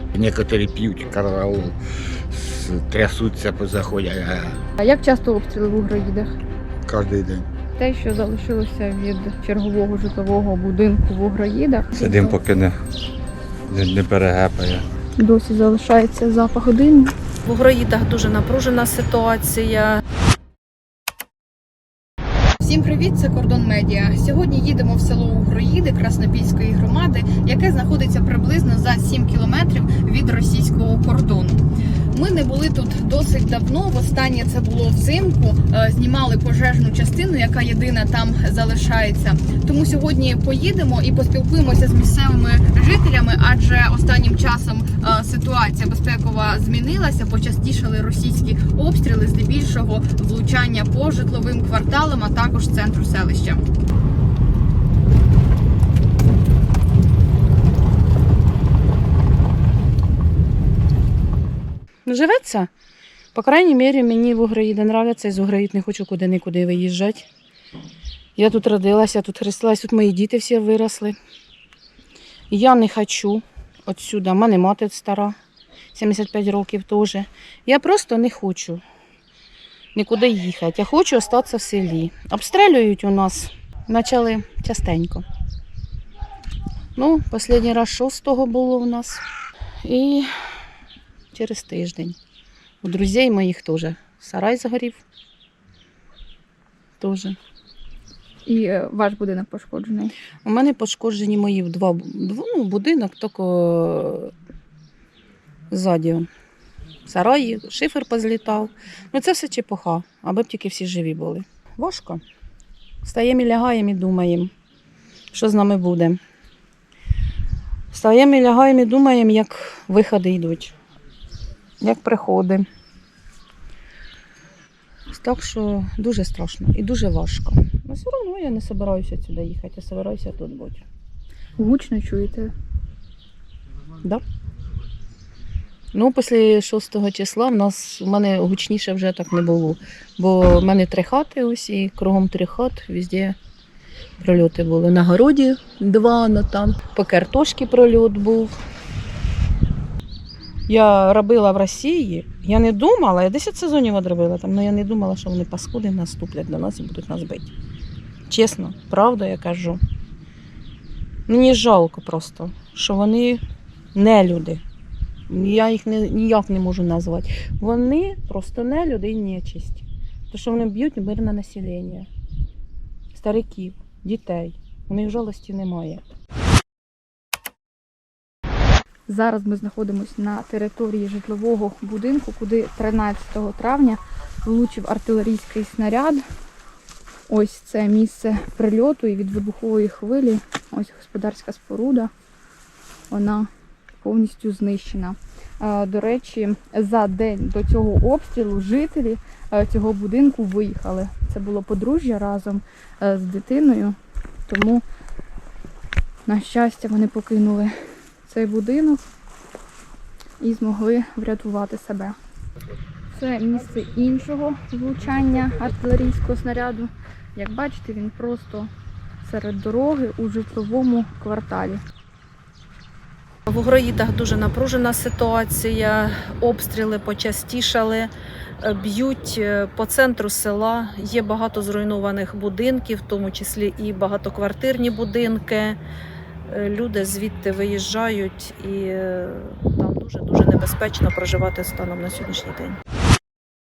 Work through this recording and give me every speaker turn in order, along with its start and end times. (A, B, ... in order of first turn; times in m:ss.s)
0:00.1-0:01.8 A
0:02.3-0:04.6 A
0:04.8-0:06.4 B
0:06.8-0:07.5 A
0:07.8-0:12.4 B
0:11.9-0:12.7 C
0:13.7-0:14.8 C
0:15.2-0:17.1 B
0:17.4-0:20.0 D
0:22.6-0:53.6 B
1:02.0-1:02.7 E
1:03.3-1:07.3 E
1:08.4-1:11.2 E
1:12.5-1:15.4 E
1:15.9-1:18.8 E
1:19.9-1:25.2 E
1:27.0-1:29.2 E
1:29.8-1:30.3 E
1:31.3-1:32.2 E
1:32.8-1:35.0 E
1:37.0-1:37.4 E
1:38.4-1:40.1 B
1:40.4-1:44.3 E
1:45.7-1:46.3 E
1:47.0-1:52.2 E
1:53.0-1:54.5 E
1:55.3-1:56.2 E
1:57.9-2:00.7 E
2:01.8-2:02.7 E
2:05.1-2:10.8 E
2:11.6-2:12.5 B
2:15.9-2:23.4 E
2:24.2-2:28.6 E
2:30.7-2:37.5 E
2:38.3-2:39.8 E
2:41.3-2:43.4 E
2:43.9-2:44.6 E
2:45.3-2:52.1 E
2:53.1-2:56.0 E
2:59.1-3:06.2 B
3:07.3-3:12.1 B
3:13.1-3:13.5 B
3:14.0-3:24.8 B
3:26.3-3:27.7 B
3:28.2-3:29.0 B
3:30.4-3:32.2 B
3:33.1-3:38.7 B
3:39.2-3:41.8 B
3:43.5-3:48.1 D
3:48.6-3:55.8 D
3:56.5-4:02.8 D